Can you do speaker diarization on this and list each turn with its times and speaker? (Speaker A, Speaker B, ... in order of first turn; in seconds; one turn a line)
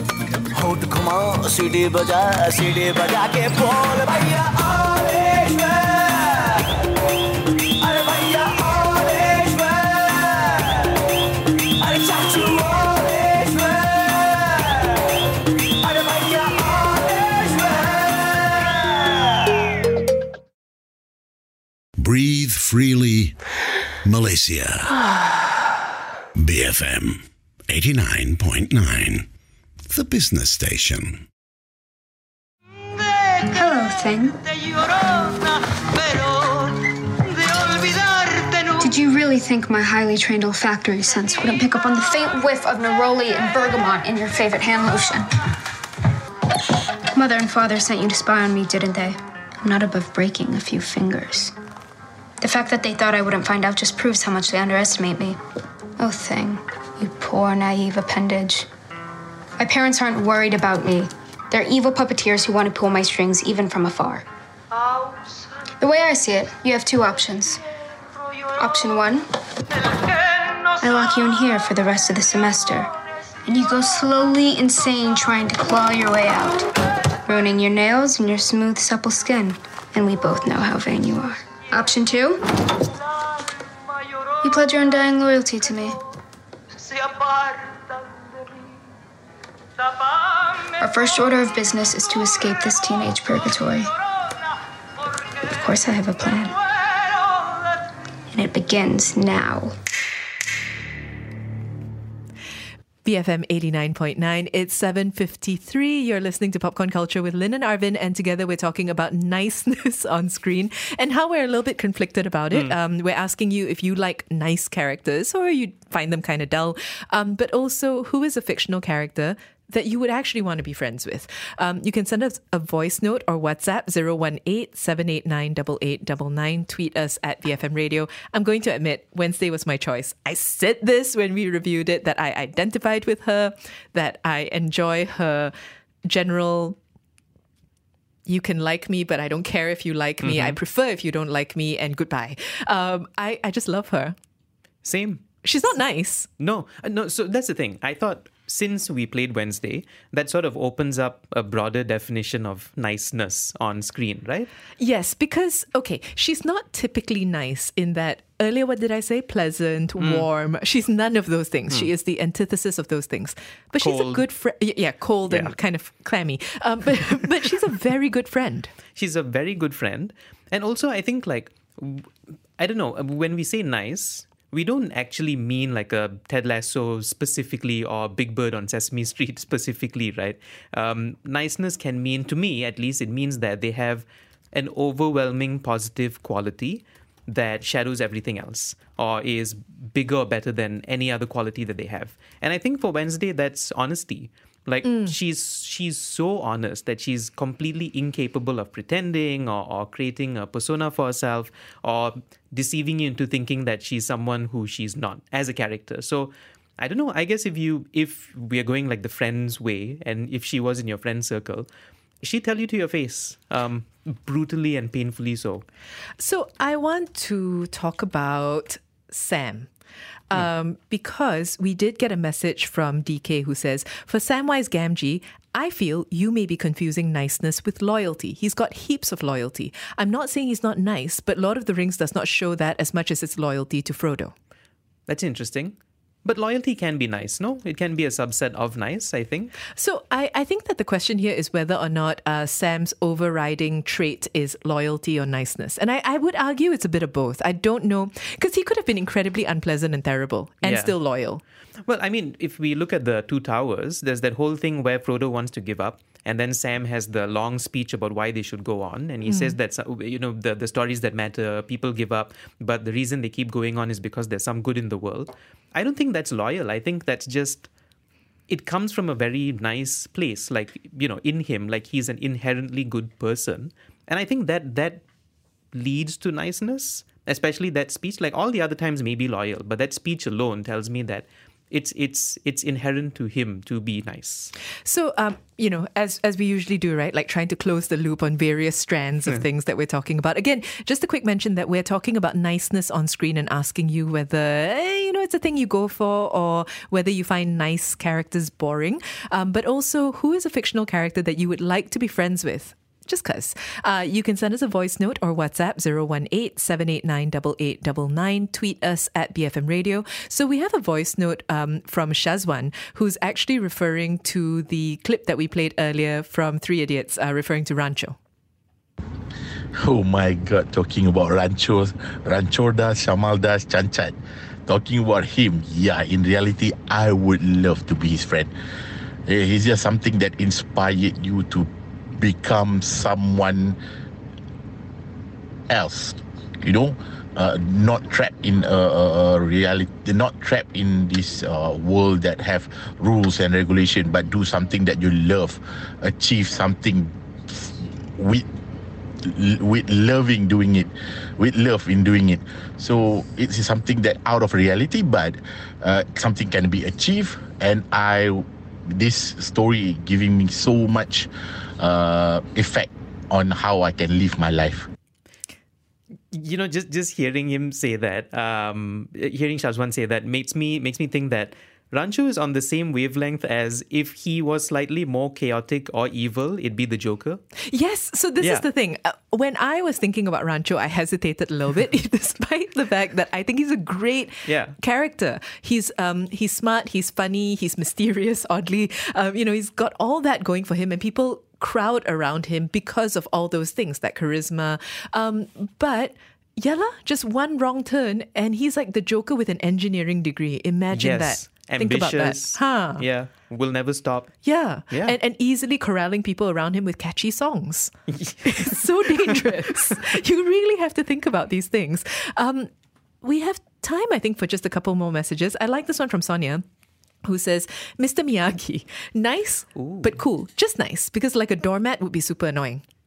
Speaker A: 0.5-6.7
Speaker A: 7.8-10.9
Speaker A: 11.8-14.7
Speaker A: 15.8-19.1
Speaker B: 22.0-23.4
Speaker B: 24.1-25.0
Speaker B: 26.4-29.3
Speaker B: 29.9-31.2
Speaker C: 33.5-34.4
Speaker C: 38.7-45.3
Speaker C: 47.1-51.5
Speaker C: 52.4-55.4
Speaker C: 56.0-58.7
Speaker C: 59.6-64.2
Speaker C: 65.8-67.6
Speaker C: 68.6-69.2
Speaker C: 70.8-72.9
Speaker C: 73.5-76.7
Speaker C: 77.3-82.4
Speaker C: 84.4-86.0
Speaker C: 90.8-93.9
Speaker C: 95.5-96.6
Speaker C: 98.3-99.8
Speaker D: 103.0-135.5
Speaker D: 136.1-136.8
Speaker D: 138.3-144.2
Speaker E: 140.2-140.6
Speaker E: 144.8-145.2
Speaker D: 145.4-146.3
Speaker E: 146.4-154.5
Speaker D: 154.8-168.7
Speaker E: 160.0-160.3
Speaker E: 163.8-164.3
Speaker E: 165.3-165.5
Speaker E: 168.9-211.7
Speaker D: 194.8-195.1
Speaker E: 212.2-215.7
Speaker D: 216.2-219.7
Speaker D: 220.3-234.3
Speaker E: 235.1-239.6
Speaker D: 239.8-251.4
Speaker E: 250.6-250.9
Speaker E: 251.9-267.7
Speaker D: 259.2-259.6
Speaker E: 268.5-275.0
Speaker E: 275.7-284.5
Speaker D: 284.9-318.2
Speaker F: 319.8-328.5
Speaker F: 329.3-333.8
Speaker F: 335.7-348.5
Speaker F: 349.2-364.9
Speaker E: 366.3-377.4
Speaker D: 377.7-403.1
Speaker E: 378.4-378.6
Speaker E: 384.4-384.8
Speaker E: 400.9-404.4
Speaker D: 404.4-407.9
Speaker E: 404.9-405.2
Speaker E: 408.1-410.0
Speaker D: 408.4-412.7
Speaker D: 413.2-416.6
Speaker D: 417.2-422.8
Speaker E: 419.8-420.2